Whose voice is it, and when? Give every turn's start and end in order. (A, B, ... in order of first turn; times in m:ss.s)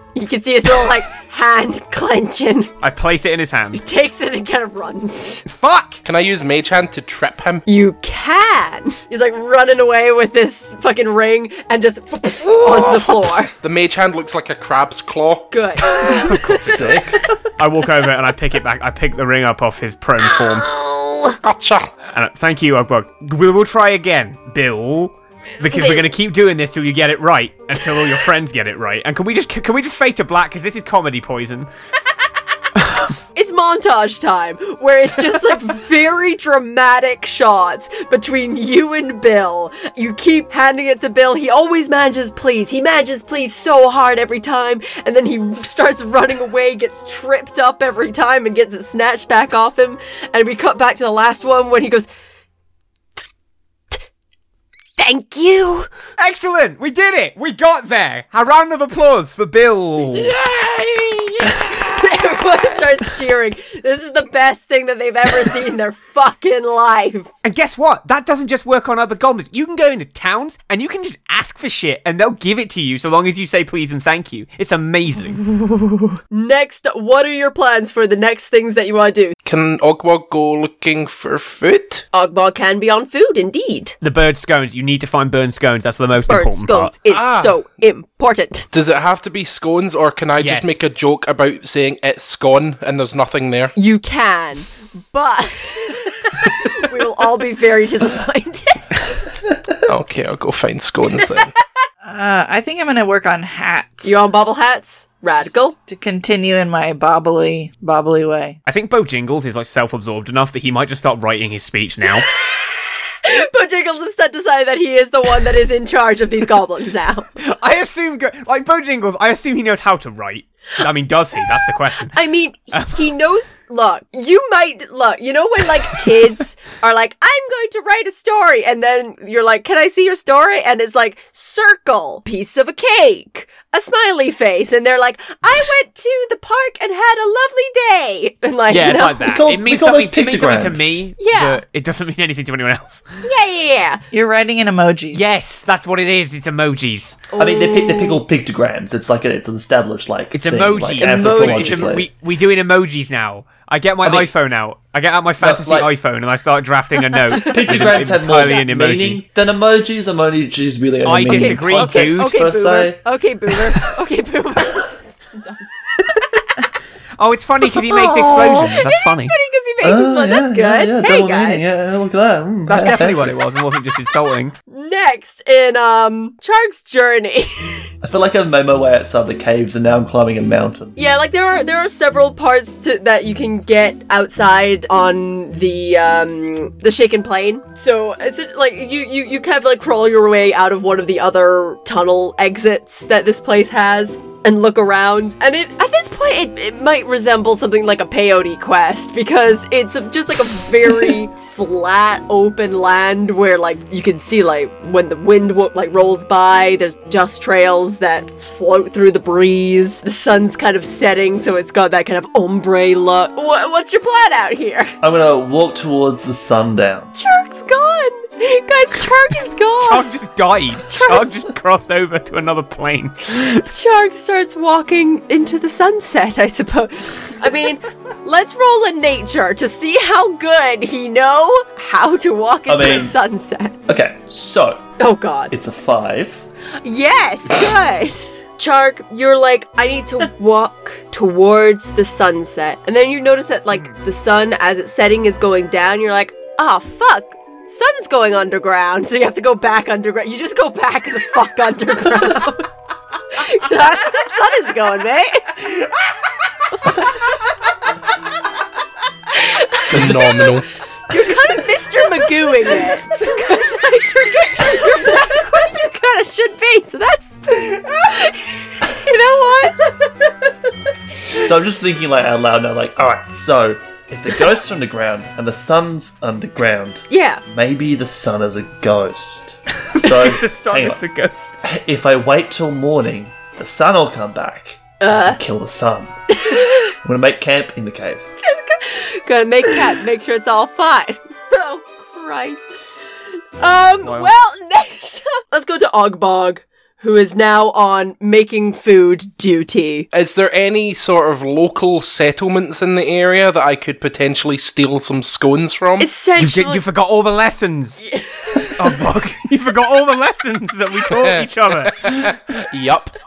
0:00.2-0:02.7 A
0:02.8-0:03.8 B
0:03.7-0:05.5 A
0:05.5-0:06.0 B
0:06.0-0:07.6 C
0:07.7-0:13.5 A
0:12.6-0:13.1 C
0:13.6-0:15.9 C
0:15.5-0:17.0 A
0:16.2-0:17.0 B
0:16.6-0:17.3 D
0:17.6-0:20.7 B
0:20.2-0:21.4 A
0:21.4-0:21.9 C
0:22.1-0:31.7 B
0:25.6-0:26.1 A
0:32.8-0:33.1 B
0:33.4-0:52.1 A
0:55.0-0:55.9 A
0:56.2-1:00.3 B
1:00.2-1:01.8 C
1:01.6-1:07.3 A
1:07.4-1:15.4 B
1:15.6-1:19.4 A
1:19.5-1:22.1 C
1:22.1-1:24.0 A
1:24.0-1:26.9 B
1:26.3-1:28.7 A
1:27.1-1:27.6 C
1:28.7-1:33.8 C
1:30.4-1:30.8 B
1:33.8-1:39.0 A
1:39.9-1:41.5 C
1:42.0-1:44.3 E
1:44.0-1:45.8 A
1:45.8-1:48.6 E
1:48.7-1:52.3 B
1:52.2-1:57.3 A
1:57.4-2:02.2 B
2:02.0-2:19.4 A
2:02.7-2:03.0 B
2:18.7-2:23.2 B
2:19.2-2:21.1 D
2:21.2-2:21.6 A
2:23.2-2:24.0 A
2:24.1-2:25.2 E
2:25.1-2:27.3 B
2:27.3-2:28.2 A
2:27.4-2:32.1 D
2:30.3-2:39.2 B
2:31.0-2:32.0 A
2:34.0-2:34.3 D
2:35.4-2:35.9 D
2:37.3-2:38.0 A
2:37.4-2:43.0 D
2:41.0-2:42.4 B
2:41.3-2:46.3 A
2:47.2-2:49.4 B
2:47.9-2:51.6 A
2:49.8-2:53.4 D
2:52.7-2:54.5 B
2:54.7-2:57.9 A
2:58.0-3:01.0 D
3:01.0-3:34.9 A
3:35.0-3:37.1 D
3:37.2-3:40.1 A
3:39.8-3:43.7 B
3:40.9-3:41.3 A
3:43.5-3:53.8 A
3:52.7-3:53.2 D
3:53.9-3:54.9 D
3:55.0-3:55.5 A
3:55.5-3:56.5 D
3:56.8-4:12.7 A
4:13.3-4:15.9 A
4:16.7-4:17.2 A
4:19.3-4:30.3 A
4:19.9-4:20.7 C
4:19.9-4:20.4 D
4:31.3-4:41.0 D
4:37.1-4:37.4 A
4:39.9-4:41.6 B
4:41.6-4:46.2 D
4:45.0-4:45.4 A
4:46.3-4:47.0 A
4:47.0-4:48.2 D
4:48.4-4:52.7 A
4:53.6-5:00.1 A
4:54.0-4:54.3 B
5:00.1-5:06.1 C
5:06.0-5:06.8 A
5:06.4-5:08.1 B
5:08.0-5:08.9 A
5:08.6-5:12.4 B
5:11.1-5:13.2 C